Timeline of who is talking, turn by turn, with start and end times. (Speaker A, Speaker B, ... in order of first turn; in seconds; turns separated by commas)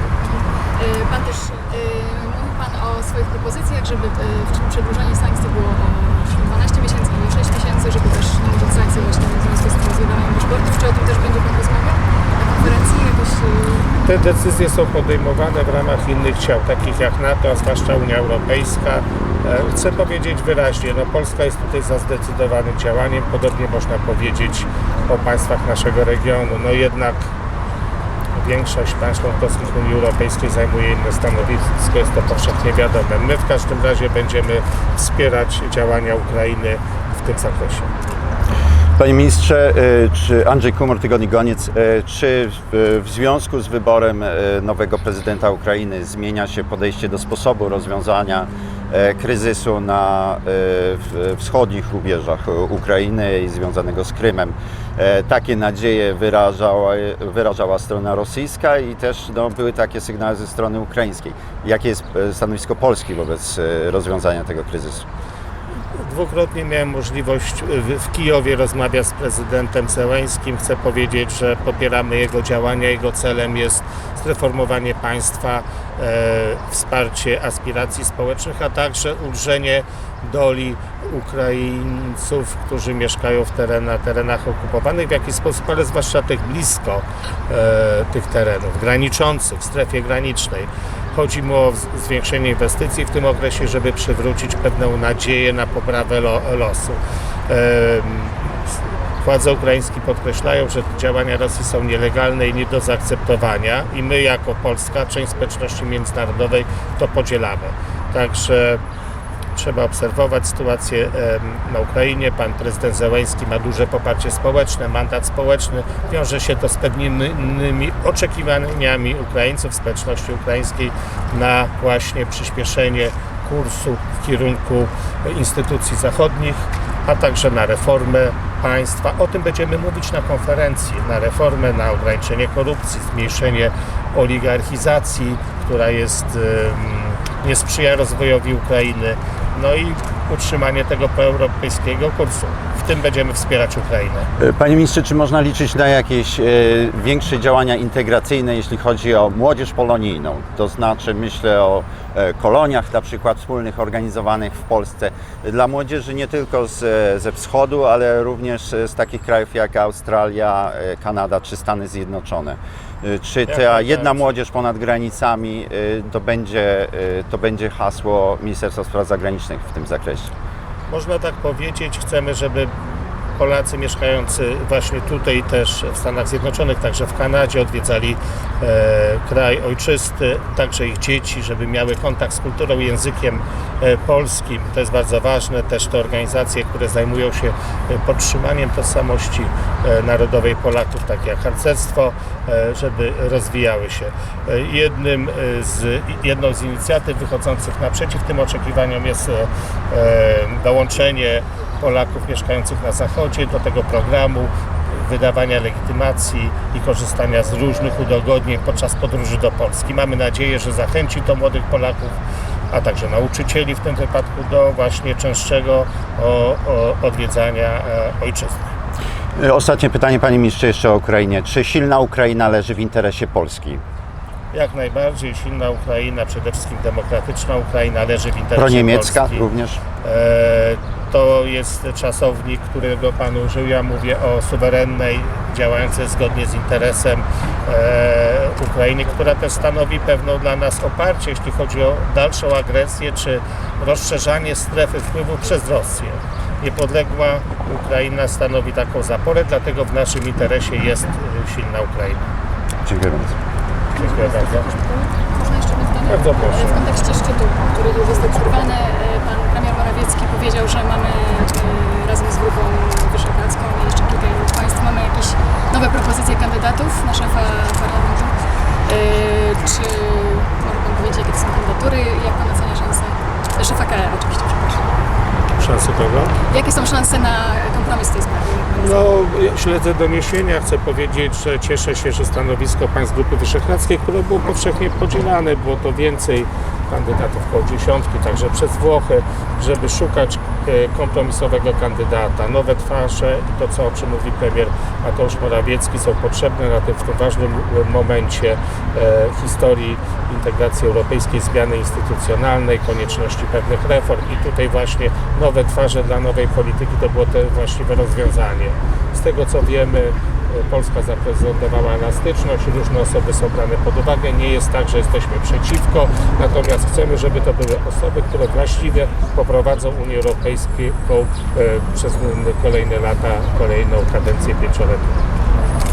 Speaker A: 0.2-13.9, Speaker B: 14.0-27.3, Speaker B: 28.4-37.9, Speaker C: 39.0-65.1, Speaker B: 65.9-108.8, Speaker B: 109.5-144.3, Speaker C: 144.4-170.3, Speaker B: 163.5-164.3, Speaker B: 170.9-172.7, Speaker B: 173.4-212.2, Speaker B: 212.7-218.7, Speaker C: 219.4-223.8, Speaker B: 224.5-229.5, Speaker C: 228.6-229.8, Speaker B: 230.0-252.2, Speaker C: 252.8-253.3, Speaker B: 254.0-254.7, Speaker A: 254.0-274.8, Speaker B: 256.1-256.9, Speaker B: 275.6-276.4, Speaker A: 276.5-278.9, Speaker B: 278.7-325.2